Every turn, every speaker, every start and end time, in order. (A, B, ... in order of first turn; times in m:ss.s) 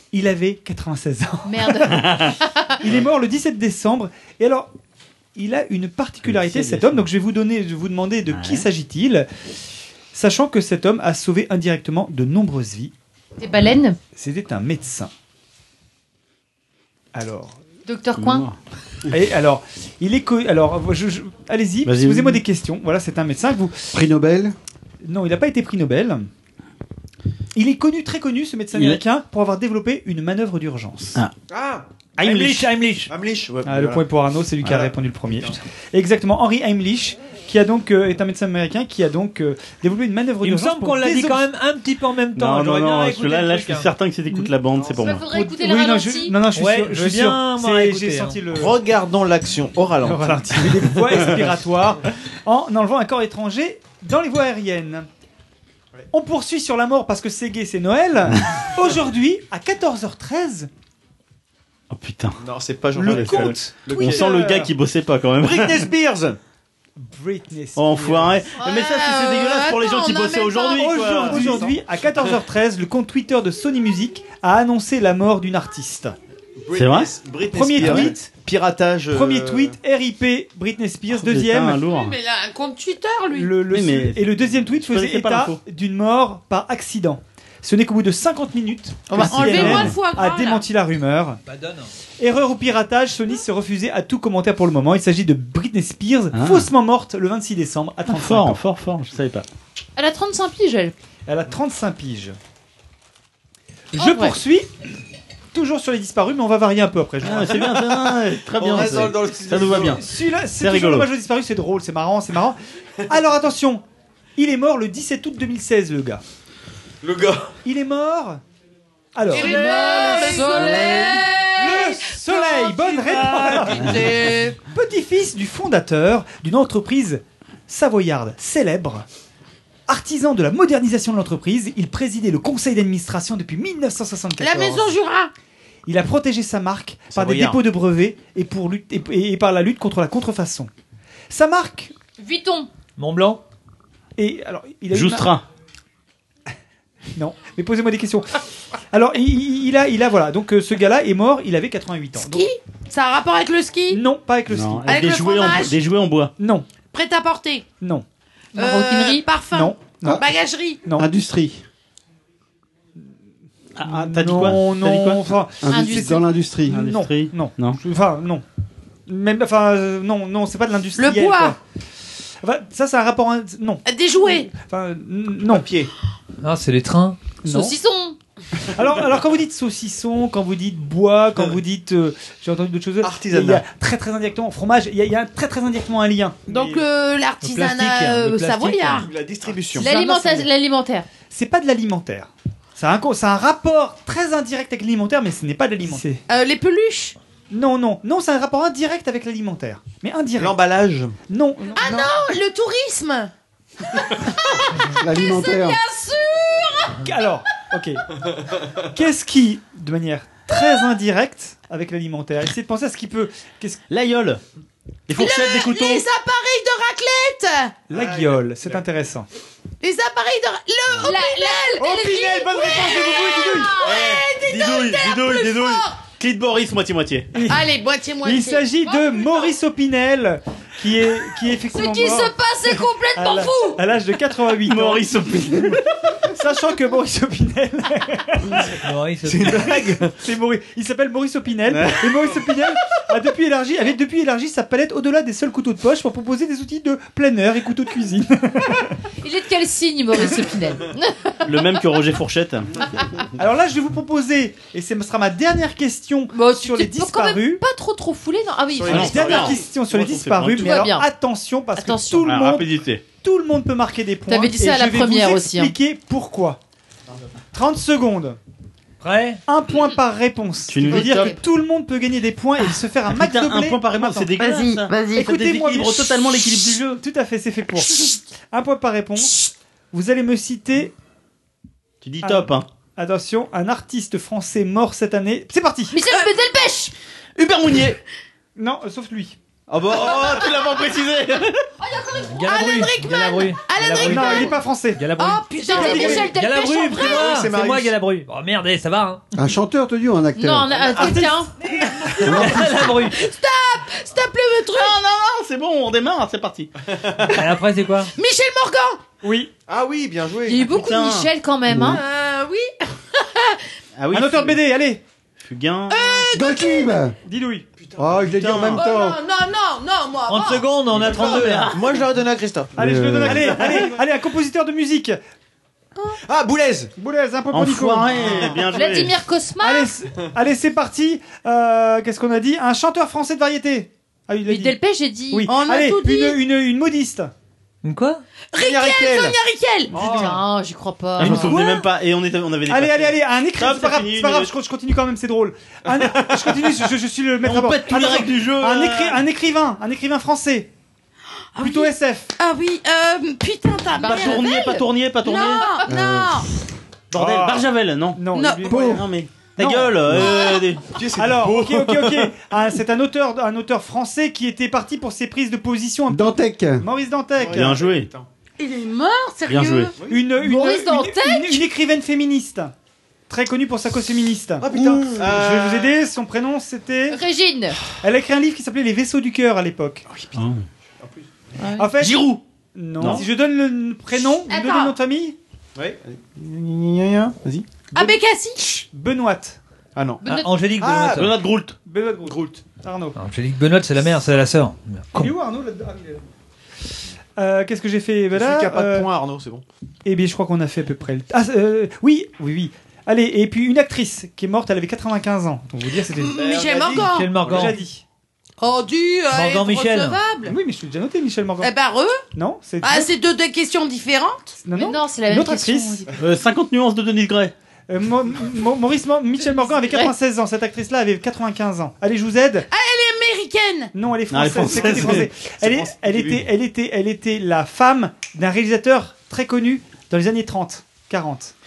0:00.1-0:02.2 A
0:01.4-0:02.7 B
0:02.8-0:04.7 A
0:05.4-0:09.3 A
0:06.2-0:07.0 C
0:08.3-0:08.7 C
0:10.1-0:12.9 A
0:13.4-0:14.0 B
0:14.1-0:15.1 A
0:17.1-0:17.6 A
0:17.8-0:18.4 B
0:18.2-0:18.6 C
0:19.1-0:23.9 A
0:21.8-0:22.4 C
0:23.9-0:24.6 D
0:25.0-0:26.3 A
0:27.5-0:31.2 A
0:28.7-0:29.0 C
0:31.5-0:31.8 E
0:32.2-0:33.1 F
0:32.2-0:32.6 A
0:33.1-0:34.0 E
0:33.6-0:41.4 A
0:34.6-0:35.5 E
0:40.4-0:43.9 F
0:42.4-0:45.2 C
0:44.3-0:44.5 A
0:45.0-0:46.4 B
0:45.2-0:48.8 A
0:46.5-0:48.4 F
0:48.5-0:51.4 E
0:50.0-0:55.1 A
0:56.1-1:00.7 A
1:01.9-1:02.4 C
1:02.4-1:04.5 E
1:02.9-1:04.7 A
1:03.0-1:05.9 C
1:05.4-1:06.4 E
1:07.0-1:08.4 A
1:07.8-1:11.7 C
1:08.6-1:11.0 G
1:10.7-1:16.1 A
1:11.3-1:11.8 E
1:16.6-1:19.8 E
1:16.7-1:17.2 C
1:17.5-1:18.3 A
1:17.8-1:18.1 C
1:19.1-1:21.8 A
1:21.2-1:22.2 C
1:21.8-1:23.6 G
1:23.3-1:31.4 A
1:23.7-1:24.2 C
1:24.9-1:25.6 C
1:29.1-1:30.7 G
1:29.2-1:29.9 C
1:31.4-1:31.9 F
1:32.2-1:38.6 A
1:36.3-1:36.7 C
1:38.1-1:39.4 C
1:40.0-1:40.9 B
1:41.3-1:42.4 A
1:43.9-1:44.7 A
1:44.0-1:44.3 B
1:45.5-1:48.0 A
1:47.2-1:50.0 C
1:48.6-1:50.0 E
1:49.5-1:53.8 A
1:50.6-1:51.1 C
1:54.4-1:56.2 A
1:57.0-1:57.5 E
1:57.6-1:58.4 A
1:59.1-2:09.0 A
1:59.3-2:04.6 G
1:59.4-2:01.2 B
2:09.9-2:14.9 A
2:14.4-2:15.3 G
2:15.9-2:20.7 A
2:17.1-2:17.6 E
2:21.3-2:21.9 A
2:22.2-2:22.7 B
2:23.0-2:23.4 F
2:24.2-2:25.3 A
2:24.9-2:25.4 C
2:27.2-2:28.4 A
2:28.9-2:32.5 A
2:32.2-2:34.0 G
2:33.9-2:34.9 A
2:34.5-2:36.3 C
2:34.8-2:35.8 G
2:36.4-2:36.7 A
2:36.9-2:37.7 G
2:38.5-2:39.3 B
2:38.6-2:40.8 G
2:39.4-2:40.2 A
2:41.0-2:41.6 D
2:43.8-2:45.2 C
2:43.8-2:48.4 A
2:45.6-2:46.8 D
2:45.7-2:46.2 B
2:46.7-2:47.8 C
2:49.1-2:51.6 A
2:51.0-2:51.6 G
2:52.4-2:55.7 A
2:53.8-2:54.5 G
2:55.5-2:55.9 E
2:56.4-2:57.2 F
2:57.4-2:57.8 A
2:57.5-2:58.2 B
2:58.7-3:06.8 A
3:03.0-3:03.6 E
3:06.5-3:09.1 G
3:06.5-3:06.8 E
3:07.4-3:09.1 F
3:09.0-3:09.9 E
3:09.8-3:10.5 G
3:09.8-3:11.0 B
3:11.3-3:16.2 A
3:16.3-3:17.2 G
3:17.5-3:20.6 A
3:20.4-3:21.2 E
3:21.3-3:22.0 A
3:21.8-3:23.3 G
3:23.9-3:27.1 G
3:24.9-3:25.8 D
3:27.0-3:28.2 A
3:28.8-3:33.8 A
3:33.9-3:34.4 C
3:35.1-3:36.0 C
3:35.1-3:37.8 G
3:37.9-3:39.3 A
3:37.9-3:38.8 E
3:39.8-3:46.0 G
3:41.0-3:41.9 B
3:41.8-3:43.8 A
3:43.8-3:47.3 C
3:47.3-3:55.1 A
3:47.4-3:49.5 G
3:51.7-3:53.8 G
3:51.8-3:52.2 B
3:54.6-3:55.8 C
3:56.3-3:58.8 A
3:58.8-3:59.7 F
3:59.2-4:00.1 E
3:59.4-4:08.9 A
4:01.7-4:02.2 C
4:09.2-4:11.4 B
4:11.4-4:12.7 C
4:13.3-4:17.6 A
4:16.3-4:19.2 B
4:18.8-4:19.8 E
4:18.9-4:20.9 C
4:18.9-4:26.6 A
4:20.6-4:21.1 B
4:21.7-4:22.3 B
4:22.2-4:23.0 C
4:24.3-4:25.8 B
4:27.5-4:28.4 A
4:29.0-4:29.4 F
4:29.5-4:34.3 A
4:30.7-4:31.4 C
4:31.0-4:31.3 B
4:33.1-4:37.0 C
4:34.4-4:35.3 G
4:35.1-4:39.4 A
4:39.9-4:40.9 A
4:42.0-4:42.7 C
4:42.2-4:46.0 A
4:45.9-4:46.9 B
4:46.1-4:46.4 G
4:47.4-4:48.0 C
4:48.6-4:49.4 A
4:49.7-4:51.6 C
4:49.7-4:50.6 E
4:52.1-4:54.6 G
4:52.2-4:59.2 F
4:54.0-4:55.1 A
4:55.2-4:57.4 G
4:55.6-4:57.3 B
4:55.8-4:56.3 A
4:57.0-4:57.9 E
4:59.4-5:00.9 D
5:00.4-5:01.5 B
5:00.8-5:01.5 A
5:02.0-5:05.0 G
5:02.2-5:03.2 F
5:02.2-5:02.7 D
5:04.7-5:06.7 C
5:07.2-5:08.1 F
5:08.2-5:09.0 G
5:09.2-5:09.5 A
5:09.7-5:10.7 E
5:10.4-5:12.0 B
5:10.6-5:11.3 C
5:11.7-5:12.0 D
5:11.8-5:13.6 G
5:14.0-5:14.6 C
5:14.1-5:15.0 A
5:15.4-5:16.3 C
5:15.9-5:17.0 G
5:16.3-5:17.1 D
5:17.2-5:17.6 A
5:17.8-5:18.2 E
5:18.0-5:19.2 D
5:18.2-5:18.8 C
5:18.7-5:21.5 G
5:20.3-5:21.8 F
5:20.9-5:22.1 C
5:21.7-5:23.9 E
5:22.8-5:25.2 A
5:22.8-5:23.8 D
5:26.2-5:26.9 E
5:27.0-5:28.6 A
5:27.5-5:29.2 C
5:28.2-5:28.5 E
5:28.7-5:29.9 B
5:29.6-5:34.8 A
5:34.4-5:35.5 B
5:35.3-5:37.3 A
5:35.4-5:36.4 G
5:37.8-5:38.2 F
5:38.5-5:40.4 G
5:38.6-5:39.4 E
5:39.9-5:40.4 E
5:39.9-5:41.5 B
5:39.9-5:40.3 A
5:41.2-5:41.9 A
5:41.2-5:44.5 C
5:42.7-5:50.7 A
5:45.9-5:46.2 E
5:47.4-5:49.2 C
5:51.5-5:56.5 G
5:51.6-5:52.3 A
5:53.9-5:54.8 B
5:54.0-5:55.7 C
5:55.4-5:55.9 B
5:55.8-5:56.5 D
5:57.1-6:00.8 C
5:57.1-6:00.2 A
5:58.3-5:58.9 G
5:58.7-5:59.0 D
6:00.1-6:00.7 G
6:00.9-6:02.4 E
6:01.1-6:07.9 A
6:06.1-6:06.9 D
6:07.4-6:08.3 E
6:07.5-6:08.1 C
6:08.6-6:10.0 G
6:09.5-6:09.9 C
6:10.0-6:10.2 E
6:10.0-6:12.7 A
6:10.3-6:11.6 B
6:13.3-6:17.2 A
6:14.6-6:16.0 E
6:14.7-6:15.2 D
6:17.1-6:17.8 B
6:18.0-6:20.0 A
6:20.1-6:20.3 E
6:20.3-6:20.6 C
6:21.6-6:21.9 B
6:21.8-6:25.4 A
6:22.0-6:22.4 C
6:23.0-6:23.3 C
6:24.4-6:25.0 G
6:25.8-6:27.6 E
6:27.9-6:28.8 G
6:28.9-6:29.6 A
6:30.0-6:30.2 E
6:30.2-6:30.5 B
6:30.3-6:31.3 F
6:30.8-6:31.2 E
6:31.1-6:31.8 C
6:31.8-6:33.2 A
6:32.3-6:32.5 E
6:33.2-6:35.3 F
6:35.2-6:36.2 A
6:37.4-6:39.1 A
6:38.3-6:39.6 E
6:40.0-6:46.4 A
6:46.1-6:47.3 G
6:46.3-6:47.8 E
6:46.9-6:47.8 F
6:47.4-6:48.0 A
6:48.6-6:50.6 G
6:49.3-6:50.2 F
6:50.4-6:51.7 A
6:51.6-6:52.2 G
6:52.3-6:53.1 A
6:52.8-6:54.6 G
6:54.6-6:56.0 A
6:54.7-6:56.1 B
6:56.2-6:57.5 C
6:57.9-7:02.7 A
7:02.7-7:03.9 G
7:03.9-7:11.5 A
7:04.3-7:05.3 C
7:04.6-7:06.5 E